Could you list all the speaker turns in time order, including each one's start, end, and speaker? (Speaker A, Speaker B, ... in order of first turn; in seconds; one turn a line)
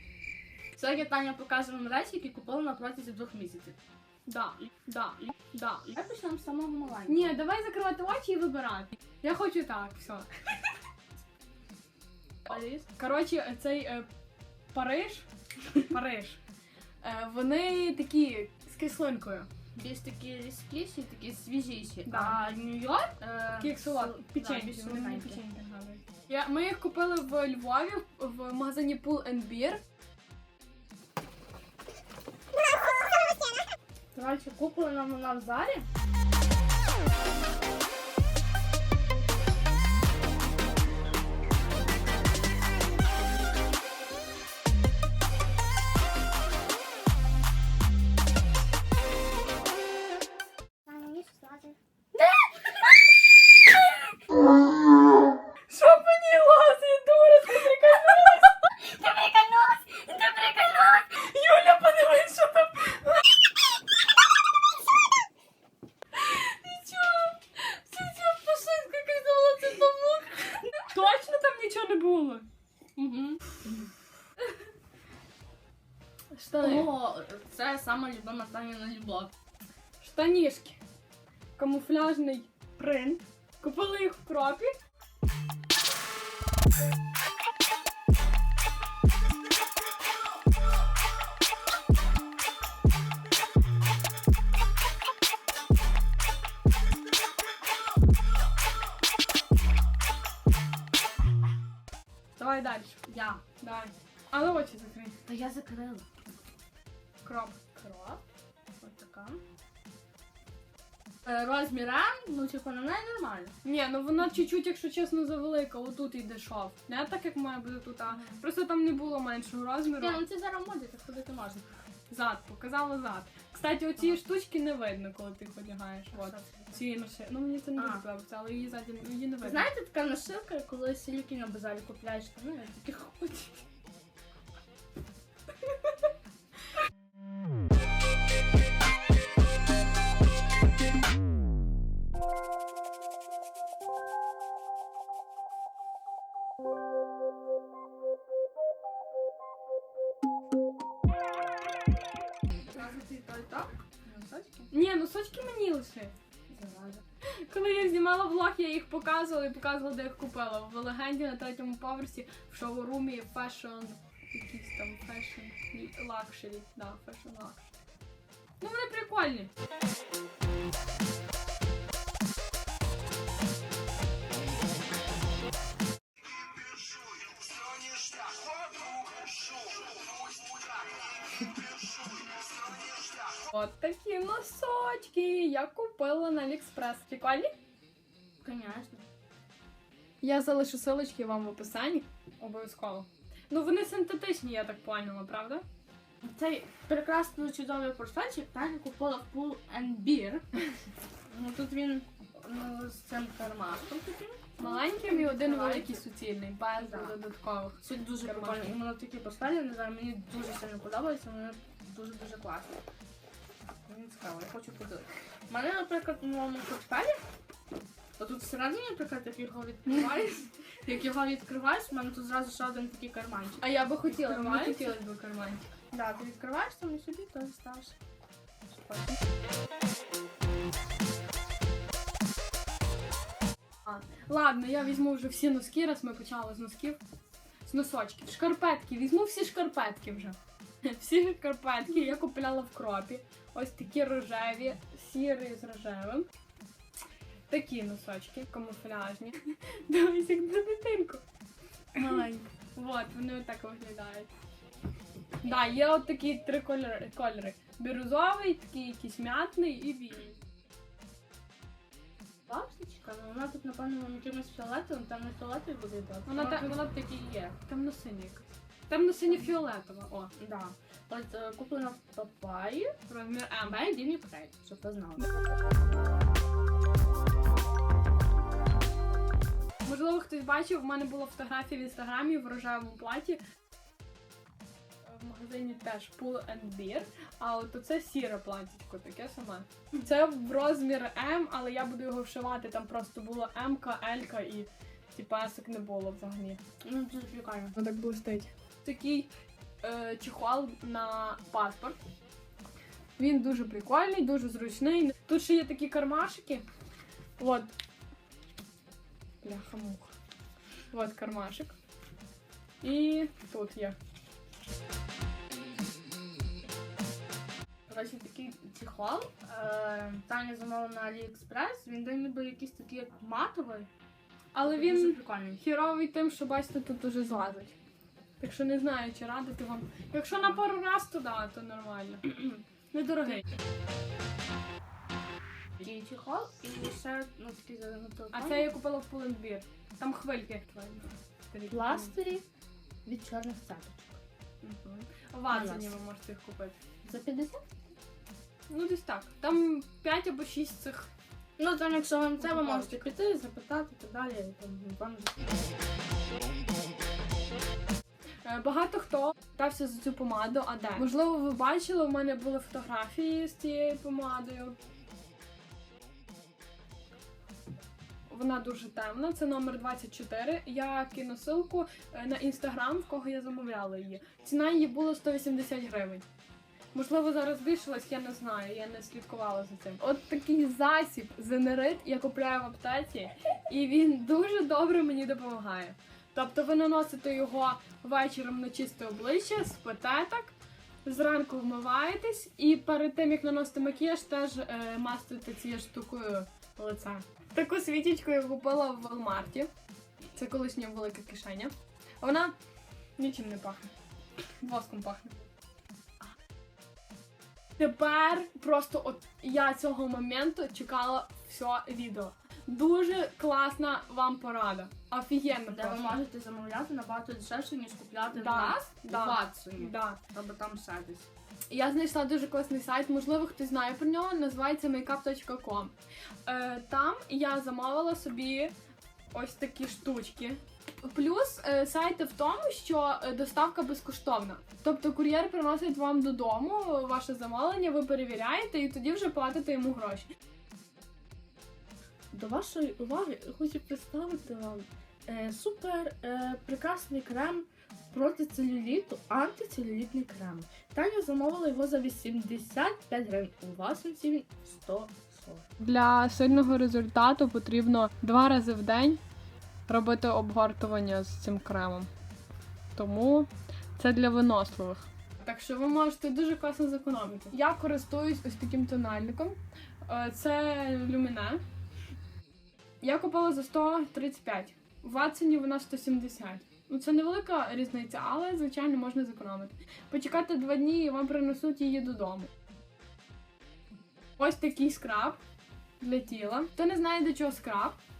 Speaker A: 0.8-3.8
Speaker B: 4.3-6.0
Speaker A: 5.9-7.4
Speaker B: 7.1-10.6
Speaker A: 12.5-12.9
Speaker B: 12.9-14.1
Speaker B: 14.7-16.4
Speaker B: 17.0-19.5
Speaker A: 19.8-25.4
Speaker B: 22.1-22.4
Speaker B: 23.6-29.8
Speaker A: 34.1-35.9
Speaker A: 50.9-51.8
Speaker B: 55.7-58.7
Speaker A: 58.8-61.1
Speaker B: 61.1-63.3
Speaker B: 66.1-72.5
Speaker A: 73.0-73.7
Speaker B: 76.3-76.9
Speaker A: 76.6-79.3
Speaker B: 80.0-80.8
Speaker B: 81.6-84.7
Speaker B: 102.4-103.0
Speaker A: 103.1-103.4
Speaker B: 103.6-105.2
Speaker A: 105.3-106.1
Speaker B: 107.2-108.2
Speaker A: 108.8-109.4
Speaker A: 111.2-113.6
Speaker B: 113.6-120.2
Speaker A: 118.1-118.4
Speaker A: 120.0-121.7
Speaker B: 122.1-129.7
Speaker A: 126.1-126.8
Speaker A: 127.8-128.0
Speaker A: 129.4-133.6
Speaker A: 152.7-154.7
Speaker B: 154.7-156.2
Speaker A: 156.5-157.0
Speaker B: 157.5-167.7
Speaker B: 168.6-169.5
Speaker B: 183.3-187.5
Speaker A: 188.4-189.0
Speaker B: 190.2-195.6
Speaker A: 196.2-200.5
Speaker A: 201.3-206.1
Speaker B: 204.6-208.7
Speaker A: 206.8-207.2
Speaker A: 207.8-212.8
Speaker A: 213.9-217.2
Speaker A: 218.2-225.0
Speaker B: 223.6-225.7
Speaker A: 225.9-228.0
Speaker A: 228.7-229.0
Speaker B: 233.8-237.0
Speaker B: 237.7-246.3
Speaker B: 247.5-251.2
Speaker B: 251.9-254.3
Speaker B: 255.4-260.4
Speaker A: 262.5-267.6
Speaker B: 266.3-267.0
Speaker B: 267.6-270.3
Speaker A: 269.2-269.6
Speaker A: 270.4-273.0
Speaker B: 273.1-273.8
Speaker A: 273.6-275.2
Speaker B: 279.9-283.4
Speaker B: 285.0-296.6
Speaker A: 296.8-297.8
Speaker B: 297.8-299.3
Speaker B: 299.8-302.0
Speaker B: 303.2-306.6
Speaker B: 307.4-307.7
Speaker B: 309.4-310.1
Speaker B: 310.9-311.8
Speaker B: 312.8-314.0
Speaker A: 317.9-323.9
Speaker B: 324.5-327.8
Speaker A: 324.6-325.6
Speaker B: 328.4-332.3
Speaker B: 332.9-333.4
Speaker A: 335.8-338.7
Speaker B: 338.3-342.2
Speaker A: 341.7-342.4
Speaker A: 343.1-344.2
Speaker B: 344.6-346.8
Speaker A: 345.5-346.0
Speaker A: 347.0-347.6
Speaker B: 348.7-351.1
Speaker A: 351.6-355.4
Speaker B: 352.4-353.1
Speaker B: 358.4-364.8
Speaker B: 368.3-376.2
Speaker B: 376.9-399.7
Speaker B: 400.3-402.5
Speaker B: 403.2-403.9
Speaker B: 404.6-405.5
Speaker B: 407.8-416.2
Speaker A: 415.7-421.3
Speaker B: 418.3-420.2
Speaker B: 421.7-425.9
Speaker B: 426.5-428.7
Speaker B: 429.3-440.3
Speaker A: 442.3-455.7
Speaker B: 455.8-459.2
Speaker B: 459.9-462.1
Speaker B: 462.9-471.6
Speaker B: 473.0-482.5
Speaker B: 484.4-485.4
Speaker B: 486.0-488.0